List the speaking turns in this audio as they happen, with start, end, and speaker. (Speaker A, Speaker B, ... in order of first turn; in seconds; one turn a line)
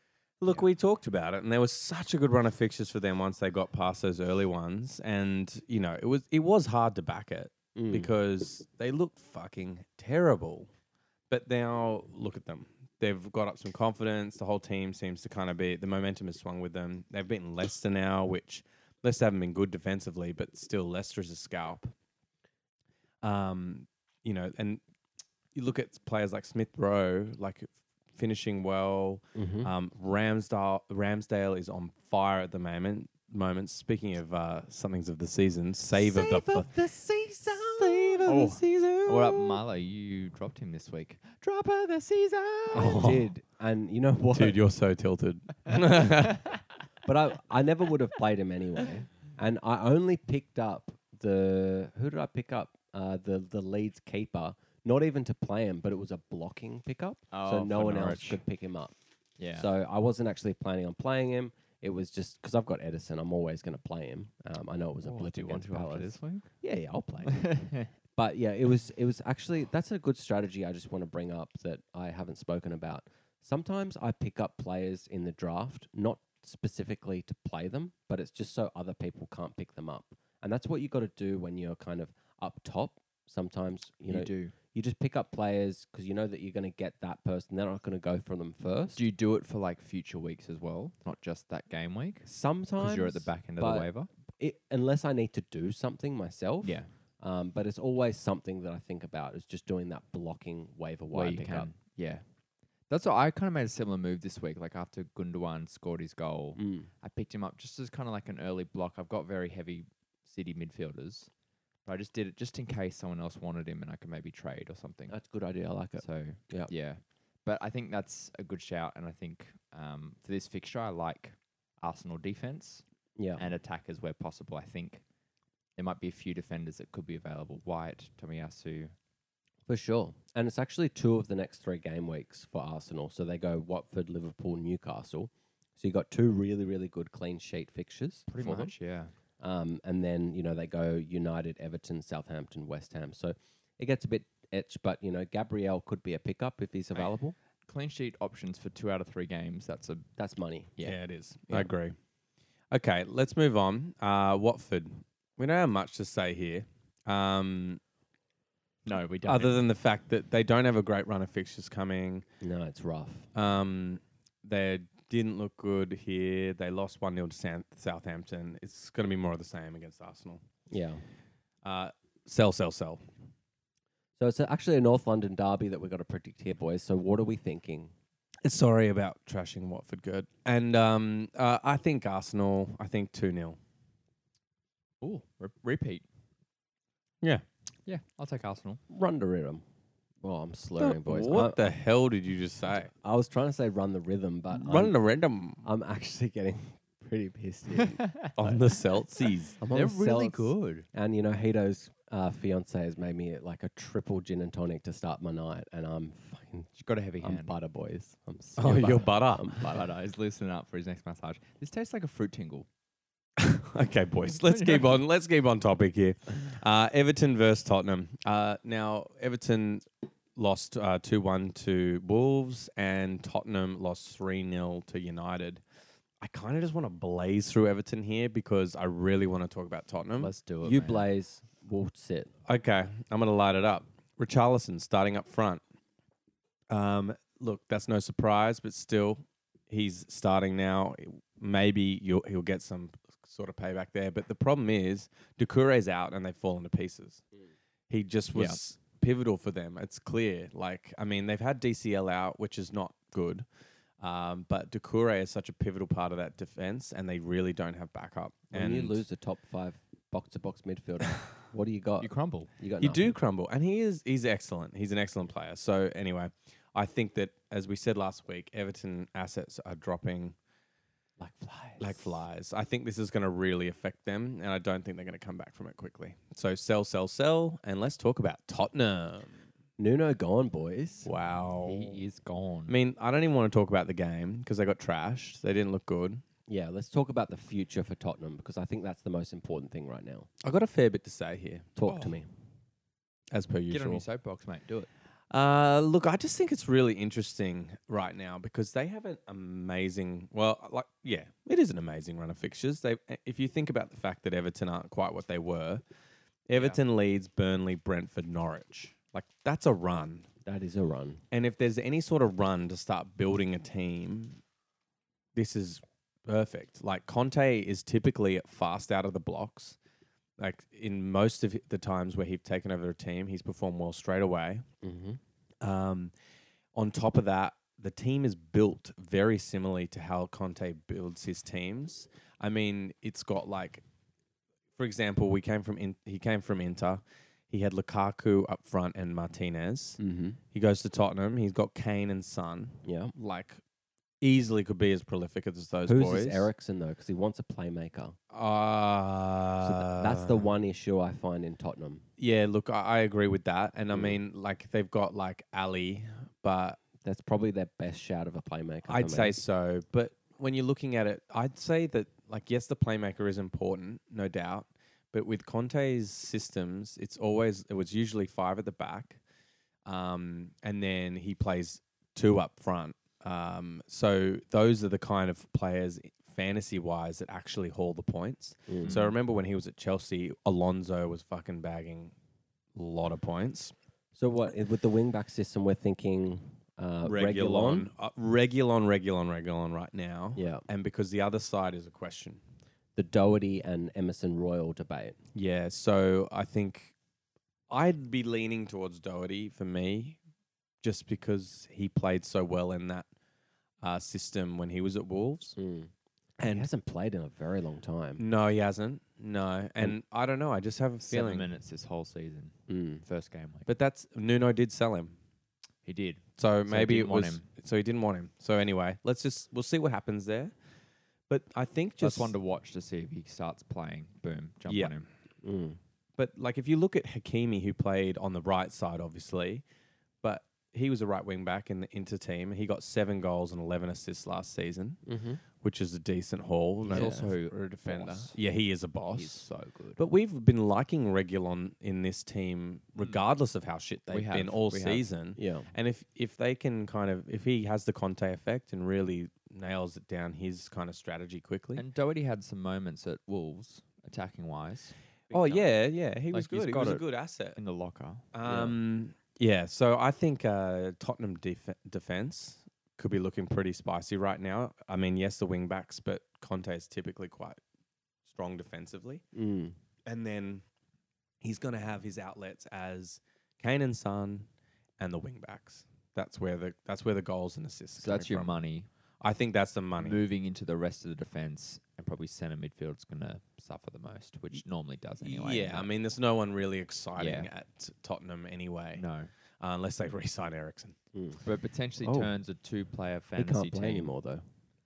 Speaker A: 0.4-10.7
Speaker B: 7.8-8.1
Speaker A: 11.3-21.9
Speaker A: 23.2-24.8
Speaker A: 25.5-36.7
Speaker B: 29.4-29.7
Speaker B: 35.9-38.5
Speaker A: 37.6-39.6
Speaker C: 38.2-43.1
Speaker B: 42.7-44.6
Speaker A: 42.8-43.3
Speaker A: 44.4-46.5
Speaker B: 47.0-58.9
Speaker C: 57.3-58.4
Speaker C: 59.4-59.7
Speaker B: 59.5-67.5
Speaker C: 65.0-66.5
Speaker C: 67.3-67.9
Speaker B: 68.2-89.0
Speaker C: 84.1-84.5
Speaker C: 89.0-94.1
Speaker B: 92.2-101.7
Speaker C: 96.6-96.9
Speaker C: 101.1-102.2
Speaker C: 102.9-111.3
Speaker B: 106.6-106.9
Speaker C: 111.9-115.2
Speaker B: 115.1-116.7
Speaker C: 116.0-122.8
Speaker B: 123.2-123.4
Speaker C: 123.4-125.0
Speaker C: 125.8-128.9
Speaker B: 129.7-138.7
Speaker C: 138.3-139.1
Speaker B: 139.4-147.4
Speaker C: 147.7-150.1
Speaker B: 150.2-150.7
Speaker A: 150.8-152.0
Speaker A: 152.7-157.8
Speaker C: 158.9-159.6
Speaker A: 159.2-162.3
Speaker B: 162.4-163.3
Speaker A: 163.3-170.4
Speaker B: 170.7-171.0
Speaker A: 171.6-173.0
Speaker B: 174.2-177.9
Speaker A: 178.4-183.6
Speaker C: 185.0-186.1
Speaker C: 187.9-188.8
Speaker B: 188.9-189.6
Speaker B: 190.2-191.6
Speaker A: 190.8-192.9
Speaker B: 193.0-194.9
Speaker A: 194.5-195.7
Speaker B: 195.6-198.7
Speaker A: 198.4-199.6
Speaker B: 199.6-209.9
Speaker C: 199.7-200.9
Speaker C: 206.8-207.5
Speaker A: 208.6-209.6
Speaker C: 209.6-212.7
Speaker A: 213.4-225.6
Speaker C: 214.4-215.0
Speaker A: 226.2-230.3
Speaker C: 230.2-231.1
Speaker B: 230.6-232.3
Speaker A: 232.5-235.6
Speaker A: 236.7-247.2
Speaker A: 247.9-253.5
Speaker C: 248.3-248.6
Speaker A: 254.0-259.0
Speaker B: 258.5-263.2
Speaker C: 262.0-262.5
Speaker A: 262.8-270.4
Speaker B: 271.2-272.2
Speaker A: 271.8-279.4
Speaker B: 279.8-281.1
Speaker A: 281.0-282.0
Speaker C: 281.6-282.8
Speaker A: 282.7-286.2
Speaker B: 286.5-290.3
Speaker A: 290.4-291.8
Speaker B: 291.8-292.3
Speaker C: 291.9-292.2
Speaker A: 293.3-294.1
Speaker C: 293.7-294.9
Speaker A: 295.3-305.8
Speaker A: 306.5-310.3
Speaker C: 306.6-306.8
Speaker B: 310.4-311.2
Speaker A: 311.3-314.4
Speaker A: 315.4-319.8
Speaker A: 320.4-324.6
Speaker B: 324.8-325.2
Speaker A: 325.6-326.1
Speaker A: 326.8-333.8
Speaker A: 334.8-340.0
Speaker B: 340.0-340.4
Speaker A: 340.5-343.6
Speaker B: 342.8-343.1
Speaker A: 344.2-346.5
Speaker B: 345.9-348.2
Speaker A: 348.3-350.5
Speaker B: 349.6-352.1
Speaker A: 352.2-356.8
Speaker B: 353.9-354.2
Speaker B: 357.0-359.4
Speaker A: 358.9-369.2
Speaker A: 369.9-382.1
Speaker B: 378.7-379.0
Speaker C: 378.8-379.1
Speaker A: 382.8-383.7
Speaker B: 384.1-387.9
Speaker A: 387.1-392.4
Speaker B: 390.4-390.6
Speaker B: 393.0-395.2
Speaker A: 395.3-396.9
Speaker A: 397.7-400.2
Speaker A: 400.8-403.1
Speaker A: 403.8-405.6
Speaker B: 405.6-408.2
Speaker A: 406.4-406.7
Speaker A: 408.2-411.5
Speaker C: 411.1-413.7
Speaker B: 412.7-413.0
Speaker A: 413.7-415.2
Speaker C: 415.9-417.5
Speaker A: 416.4-420.5
Speaker A: 421.3-422.4
Speaker C: 422.0-425.1
Speaker A: 424.7-424.9
Speaker B: 425.4-425.8
Speaker A: 426.2-429.6
Speaker A: 430.2-435.0
Speaker B: 435.1-435.4
Speaker A: 435.6-451.8
Speaker C: 436.9-438.4
Speaker B: 436.9-437.3
Speaker C: 439.1-440.0
Speaker C: 444.1-445.1
Speaker B: 445.4-445.7
Speaker C: 451.8-455.7
Speaker A: 455.3-457.6
Speaker C: 456.3-458.2
Speaker A: 458.3-467.6
Speaker B: 458.4-458.8
Speaker A: 468.3-469.2
Speaker B: 469.3-469.8
Speaker A: 470.1-470.6
Speaker A: 471.4-474.5
Speaker A: 475.0-478.6
Speaker C: 478.0-478.9
Speaker A: 479.2-480.2
Speaker C: 480.0-485.9
Speaker A: 485.2-489.1
Speaker C: 487.2-487.5
Speaker C: 488.9-489.3
Speaker A: 489.6-491.0
Speaker B: 491.1-491.4
Speaker C: 491.4-494.1
Speaker B: 492.0-492.3
Speaker B: 493.4-494.4